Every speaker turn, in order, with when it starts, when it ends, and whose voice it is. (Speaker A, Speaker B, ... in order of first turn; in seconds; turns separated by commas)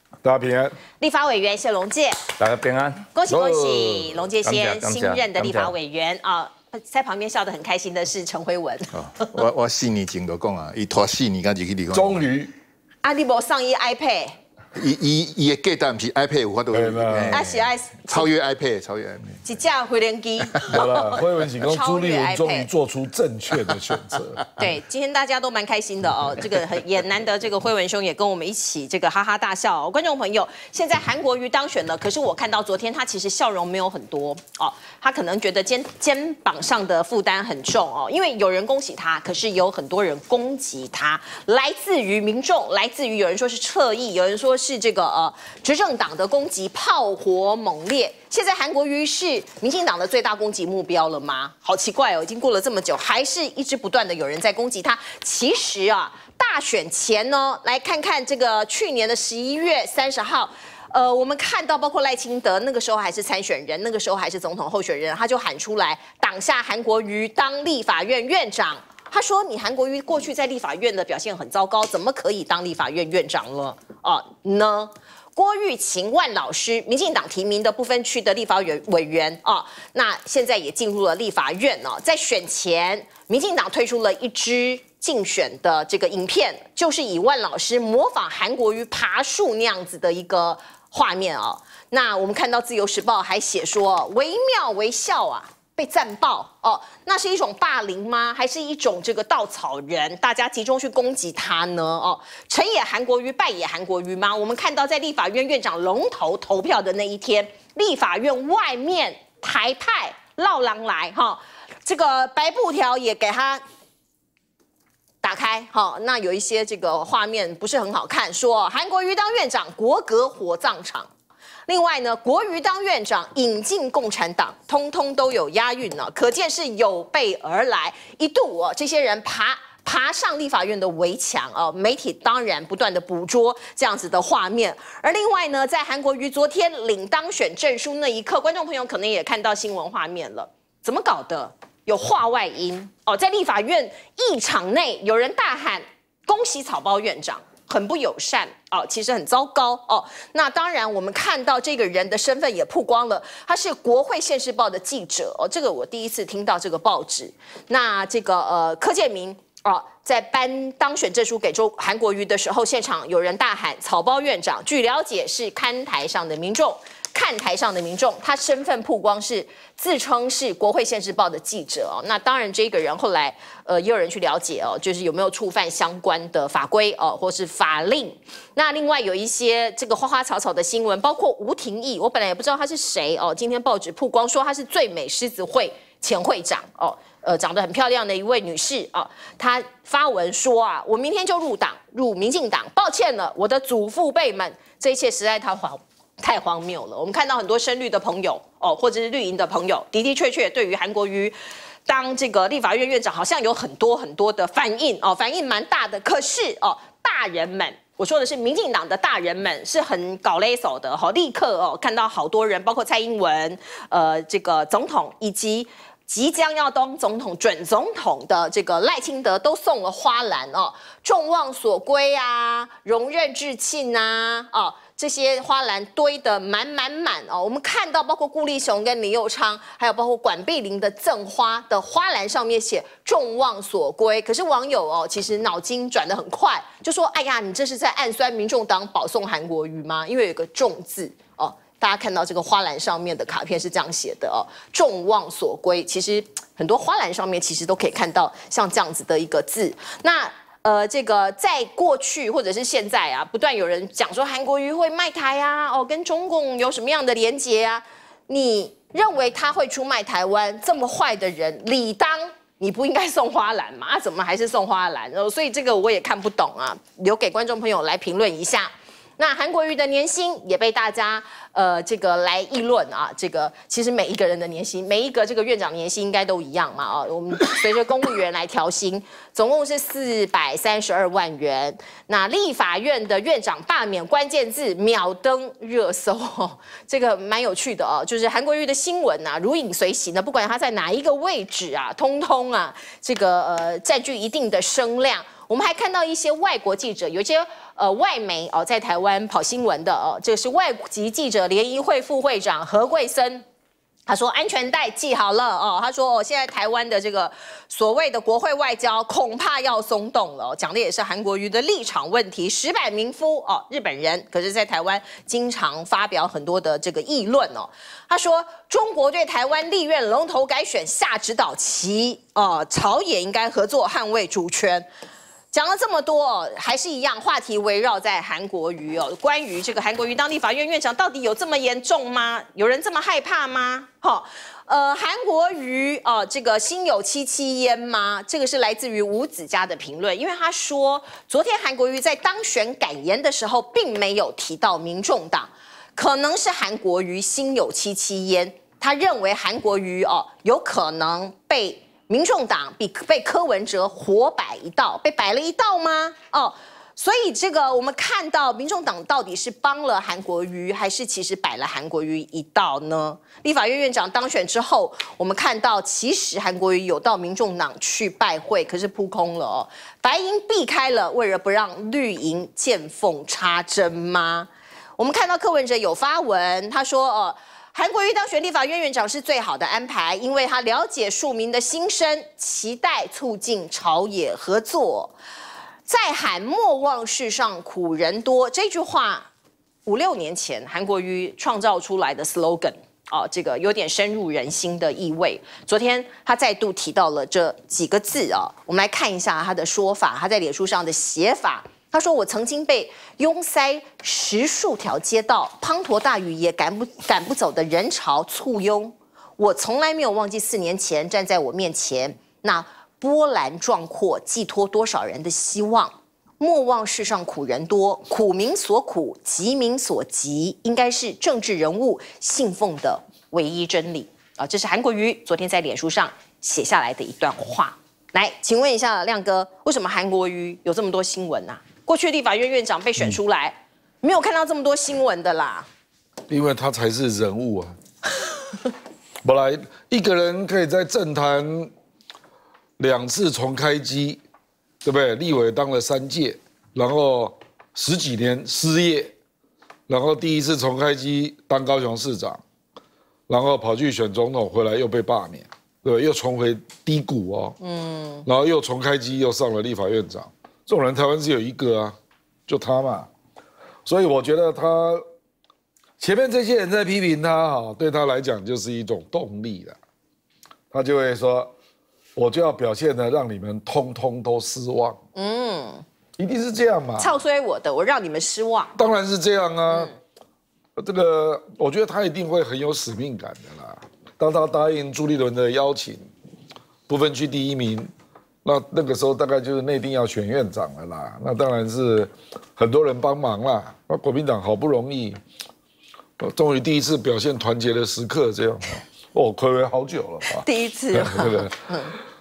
Speaker A: 0.2-0.7, Speaker B: 1.0-2.2, Speaker C: 2.4-3.1, Speaker B: 3.1-8.9, Speaker A: 3.7-4.1, Speaker C: 4.4-5.7, Speaker D: 8.9-12.2, Speaker A: 11.9-12.5, Speaker B: 13.0-14.4, Speaker D: 14.7-19.4, Speaker A: 16.7-17.2, Speaker B: 17.3-18.3, Speaker B: 19.4-22.7, Speaker A: 20.8-24.5, Speaker B: 24.6-113.6, Speaker B: 115.2-121.1, Speaker B: 121.7-201.3, Speaker B: 201.8-303.4, Speaker B: 304.1-324.9, Speaker B: 325.5-385.1, Speaker B: 385.9-389.3, Speaker B: 389.9-435.7, Speaker A: 436.3-437.7, Speaker A: 439.2-441.7, Speaker A: 442.8-444.2, Speaker A: 444.8-449.1, Speaker A: 449.9-452.4, Speaker A: 453.3-457.6, Speaker B: 457.6-458.3, Speaker A: 458.2-461.9, Speaker A: 462.5-463.1, Speaker A: 463.9-465.0, Speaker A: 466.0-469.8, Speaker A: 470.7-471.5, Speaker A: 472.1-475.0, Speaker B: 475.1-475.8, Speaker A: 476.2-477.1, Speaker B: 477.0-478.8, Speaker A: 478.8-479.9, Speaker B: 479.7-479.9, Speaker A: 480.8-486.1, Speaker A: 486.9-487.9, Speaker A: 488.4-495.2, Speaker A: 496.2-501.5, Speaker B: 500.3-502.0